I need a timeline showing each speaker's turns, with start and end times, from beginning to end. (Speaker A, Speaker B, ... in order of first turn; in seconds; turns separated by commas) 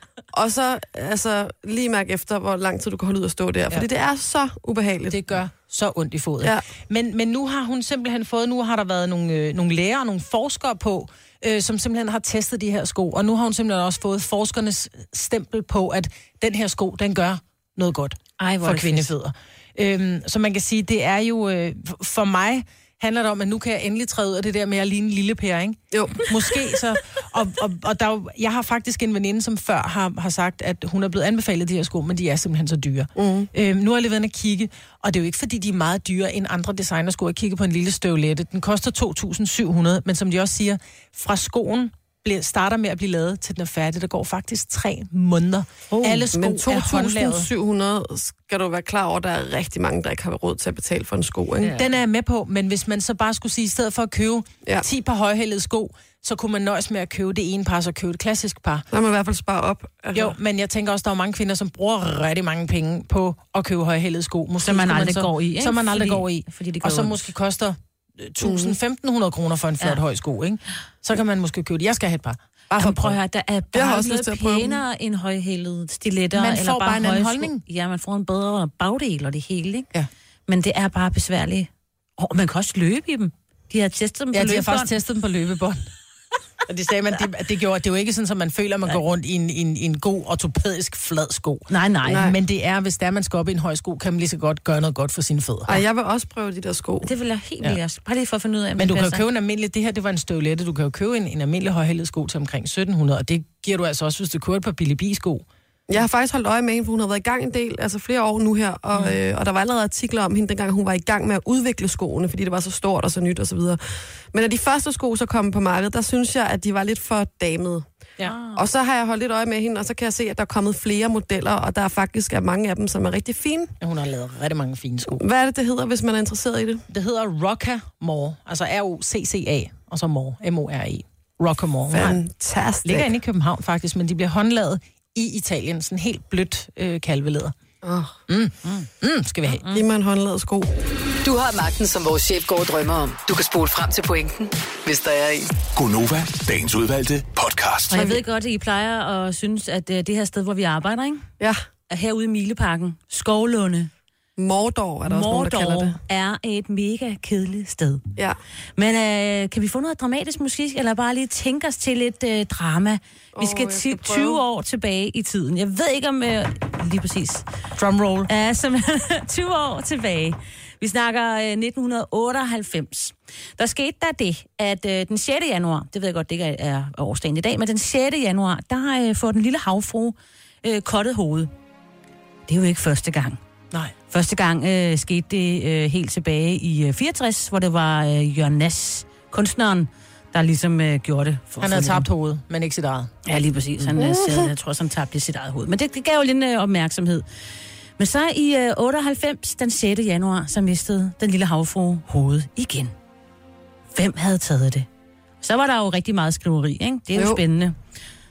Speaker A: 0.3-5.4, Speaker B: 5.1-47.5, Speaker C: 18.4-19.1, Speaker A: 25.9-26.3, Speaker A: 33.2-33.5, Speaker A: 46.3-51.8, Speaker B: 51.7-58.9, Speaker A: 58.9-60.4, Speaker B: 60.1-73.2, Speaker C: 64.6-67.3, Speaker A: 68.4-68.8, Speaker C: 72.7-79.9, Speaker A: 73.7-74.8, Speaker B: 76.3-77.6, Speaker C: 80.5-84.9, Speaker B: 84.3-85.8, Speaker B: 86.7-95.8, Speaker C: 91.7-92.3, Speaker A: 92.1-92.3, Speaker A: 95.7-97.1, Speaker C: 97.0-99.2, Speaker B: 98.8-105.5, Speaker A: 105.9-113.8, Speaker A: 114.3-117.9, Speaker C: 118.2-118.6, Speaker A: 118.5-123.7, Speaker B: 123.8-125.2, Speaker A: 125.1-126.8, Speaker B: 126.9-132.2, Speaker A: 131.9-133.1, Speaker B: 132.8-137.6, Speaker A: 137.8-138.2, Speaker B: 138.3-139.6, Speaker A: 139.7-140.7, Speaker D: 141.2-145.5, Speaker E: 145.8-148.0, Speaker C: 147.9-151.3, Speaker A: 147.9-148.2, Speaker C: 151.9-153.9, Speaker A: 154.4-156.0, Speaker C: 155.1-158.0, Speaker C: 158.8-167.5, Speaker A: 163.4-164.4, Speaker B: 167.8-168.3, Speaker C: 168.3-181.5, Speaker C: 182.5-183.4, Speaker C: 184.1-192.1, Speaker B: 191.6-193.1, Speaker C: 193.3-197.2, Speaker A: 194.0-194.5, Speaker C: 198.0-202.9, Speaker C: 203.9-204.9, Speaker C: 205.4-207.8, Speaker A: 207.2-207.4